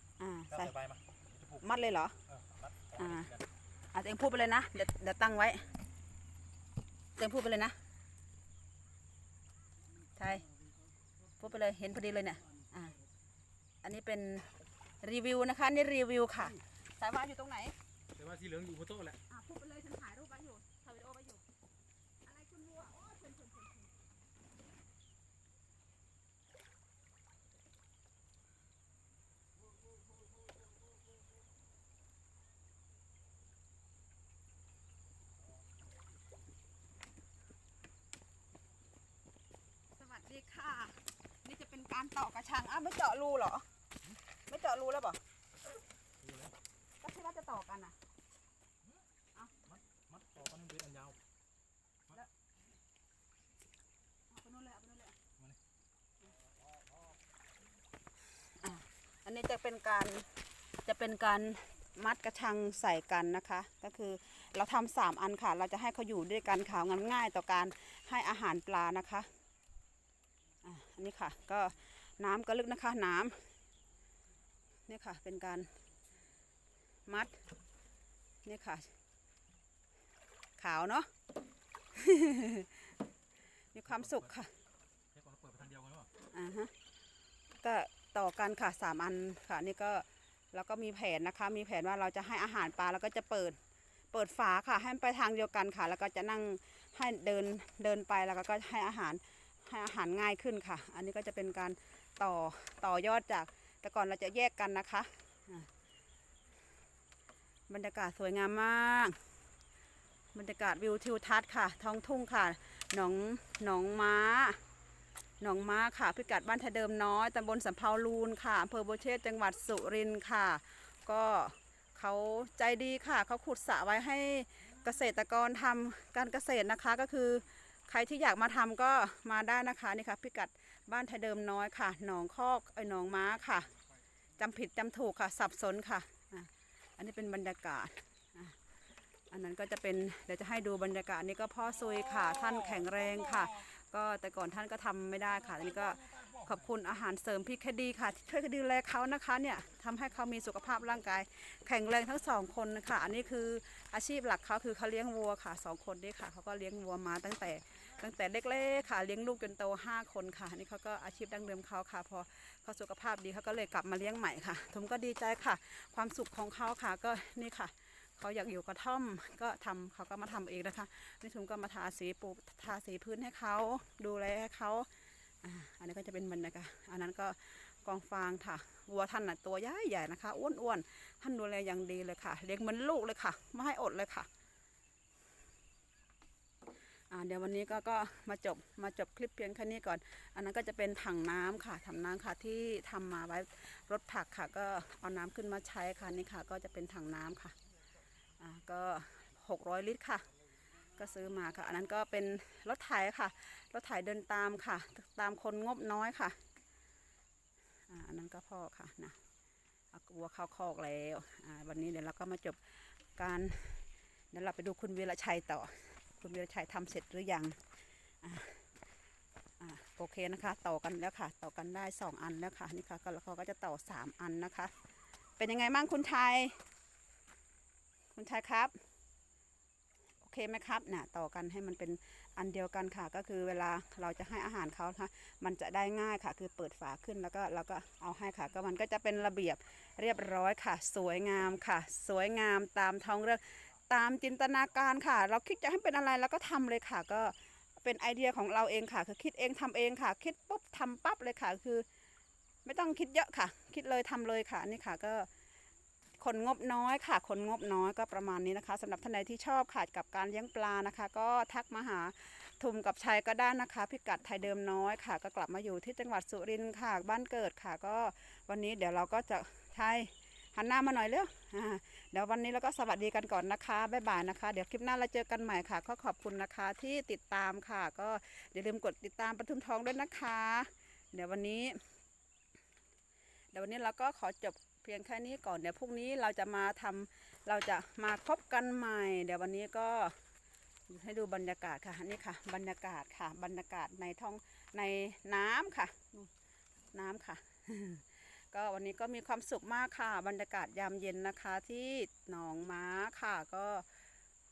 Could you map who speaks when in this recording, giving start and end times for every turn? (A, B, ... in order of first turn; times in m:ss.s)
0:00.2-0:00.7 A
0:00.5-0:01.7 B
0:01.6-0:02.2 A
0:02.3-0:03.5 B
0:03.0-0:03.3 A
0:03.9-0:05.7 A
0:07.2-0:07.8 A
0:10.2-0:10.5 A
0:11.4-0:13.0 A
0:13.8-0:17.8 A
0:18.2-0:19.2 B
0:19.3-0:21.4 A
0:22.2-0:23.9 A
0:40.0-0:43.7 A
0:44.5-0:45.2 A
0:46.2-0:46.5 B
0:47.0-0:48.0 A
0:49.6-0:51.2 B
0:54.3-0:55.2 A
0:58.4-1:09.3 A
1:10.6-1:13.4 A
1:14.9-1:15.7 A
1:17.1-1:17.4 A
1:18.4-1:18.9 A
1:20.6-1:21.1 A
1:21.9-1:22.9 A
1:23.7-1:24.5 A
1:25.1-1:26.1 B
1:26.3-1:26.7 A
1:27.6-1:33.6 A
1:34.1-1:45.7 A
1:47.7-1:49.2 A
1:50.3-1:54.6 A
1:55.4-2:13.7 A
2:14.4-2:18.6 A
2:19.3-2:54.9 A
2:55.4-3:04.3 A
3:07.1-3:17.6 A
3:18.4-3:20.3 A
3:21.0-3:26.4 A
3:27.9-3:29.2 A
3:29.9-3:37.7 A
3:38.2-3:38.6 A
3:39.6-3:44.7 A
3:45.4-3:46.6 A
3:48.2-3:48.8 A
3:50.2-4:11.8 A
4:12.6-4:15.3 A
4:16.2-4:41.8 A
4:43.5-4:50.2 A
4:50.9-4:56.3 A
4:56.9-5:03.9 A